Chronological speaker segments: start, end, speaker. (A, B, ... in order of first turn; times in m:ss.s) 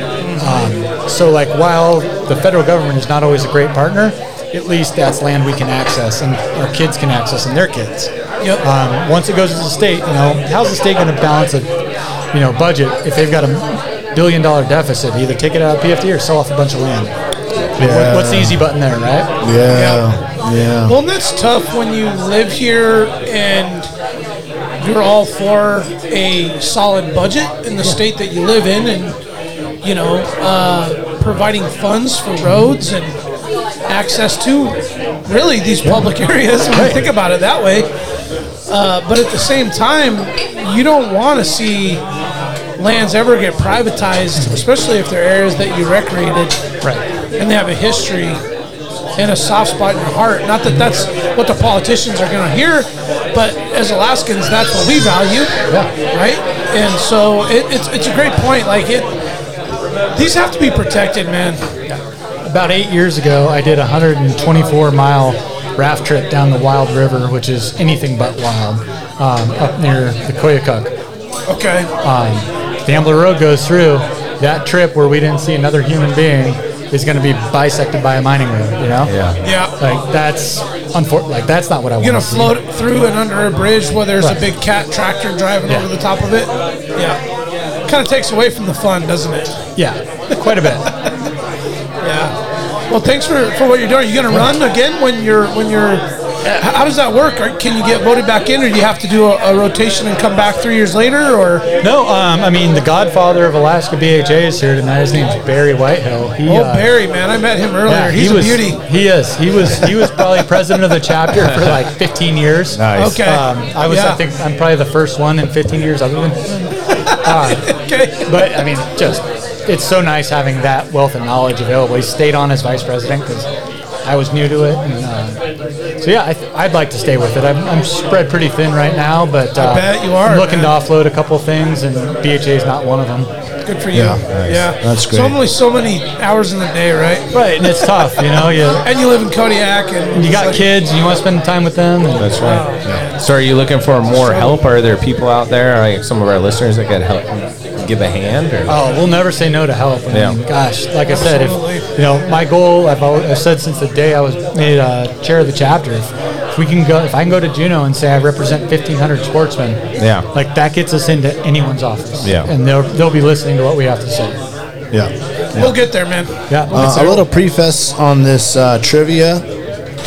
0:00.2-0:00.7 A
0:00.4-0:11.7 B
0:12.3-0:17.1 B
0:17.8-0:19.3 B
0:17.8-0:18.6 C
0:19.4-0:21.0 C
0:19.7-0:20.0 A
0:20.8-0:23.9 A
0:24.8-0:29.2 A
0:29.8-0:33.2 A
0:32.4-0:32.7 B
0:33.9-0:37.9 A
0:35.8-0:36.1 B
0:36.7-0:37.0 B
0:38.7-0:42.0 A
0:42.8-0:46.6 A
0:47.4-0:48.4 A
0:49.2-0:55.6 A
0:56.1-0:59.1 A
1:00.2-1:01.6 A
1:01.9-1:10.9 B
1:11.5-1:11.9 A
1:12.0-1:19.2 B
1:19.0-1:19.4 D
1:19.4-1:19.7 A
1:19.8-1:22.6 B
1:22.0-1:27.2 A
1:27.9-1:29.5 A
1:29.8-1:30.9 B
1:32.0-1:32.4 A
1:32.9-1:41.7 A
1:41.8-1:46.9 B
1:46.4-1:48.8 A
1:47.9-2:03.5 B
1:52.8-1:53.2 D
1:52.9-1:54.2 A
1:56.9-1:58.5 A
2:04.0-2:05.4 B
2:06.0-2:13.3 B
2:09.6-2:10.7 A
2:13.6-2:17.9 A
2:13.9-2:15.4 C
2:14.3-2:14.7 D
2:17.3-2:18.8 B
2:18.8-2:20.6 A
2:20.1-2:22.4 B
2:22.2-2:22.6 D
2:22.4-2:22.9 A
2:23.2-2:28.8 D
2:24.1-2:24.5 A
2:28.7-2:44.4 B
2:30.1-2:30.4 D
2:31.1-2:31.9 A
2:40.0-2:40.3 D
2:42.2-2:42.5 D
2:44.9-2:45.8 C
2:45.6-2:47.2 A
2:46.5-2:47.0 B
2:46.7-2:49.4 C